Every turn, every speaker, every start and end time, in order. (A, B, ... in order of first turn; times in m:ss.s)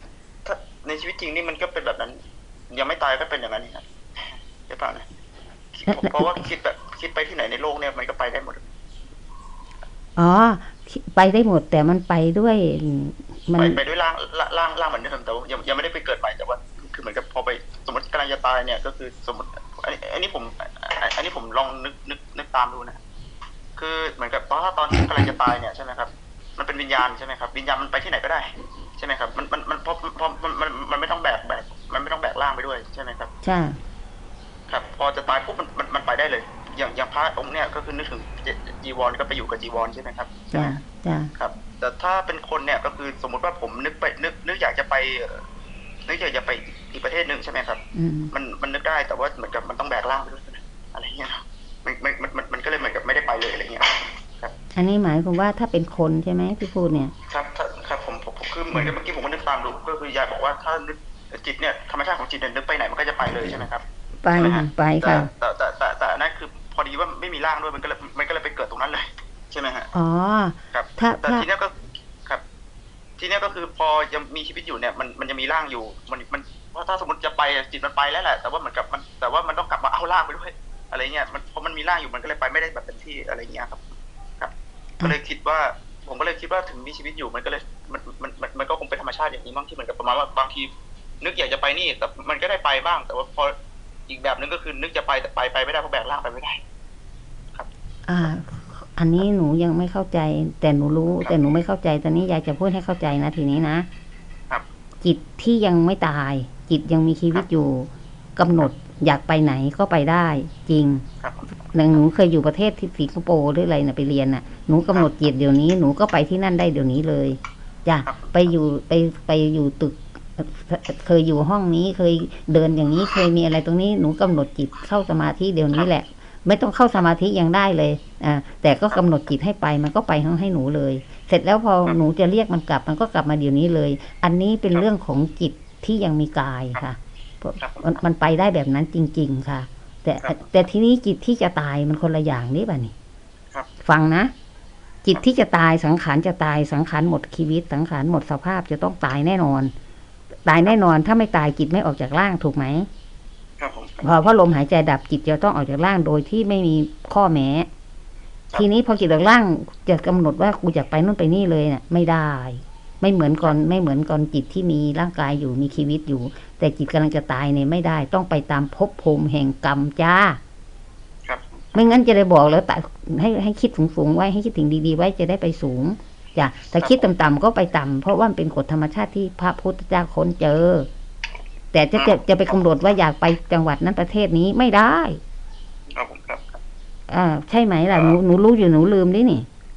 0:00.4-0:02.2 A
0:02.7-0:05.0 A
0:05.7-0:08.6 A
0:05.9-0:06.4 B
0:10.2-0:13.8 B
0:13.6-0:23.0 A
0:23.8-0:33.3 A
0:33.4-0:33.8 B
0:34.7-0:40.8 A
0:40.5-0:41.3 B
0:41.4-0:45.4 A
0:46.0-0:47.8 A
0:47.9-0:48.3 B
0:48.3-0:54.5 A
0:54.7-0:57.1 B
0:57.3-1:03.8 A
1:04.2-1:05.3 B
1:04.3-1:09.9 A
1:09.9-1:11.5 B
1:10.7-1:12.4 A
1:13.2-1:23.8 A
1:24.4-1:33.5 A
1:34.1-1:36.6 A
1:38.0-1:43.9 B
1:45.0-1:51.0 B
1:51.2-1:51.5 A
1:51.7-2:22.9 B
1:58.0-1:58.5 A
2:17.6-2:18.0 A
2:20.2-2:20.5 A
2:23.8-2:24.3 B
2:25.0-2:29.7 B
2:30.4-2:32.9 B
2:33.6-2:34.1 A
2:34.0-2:37.7 B
2:38.5-2:50.4 B
2:51.2-2:51.6 A
2:51.7-3:00.9 B
2:56.6-2:57.1 A
3:01.7-3:05.2 B
3:01.9-3:02.2 A
3:05.9-3:06.6 A
3:07.1-3:09.5 B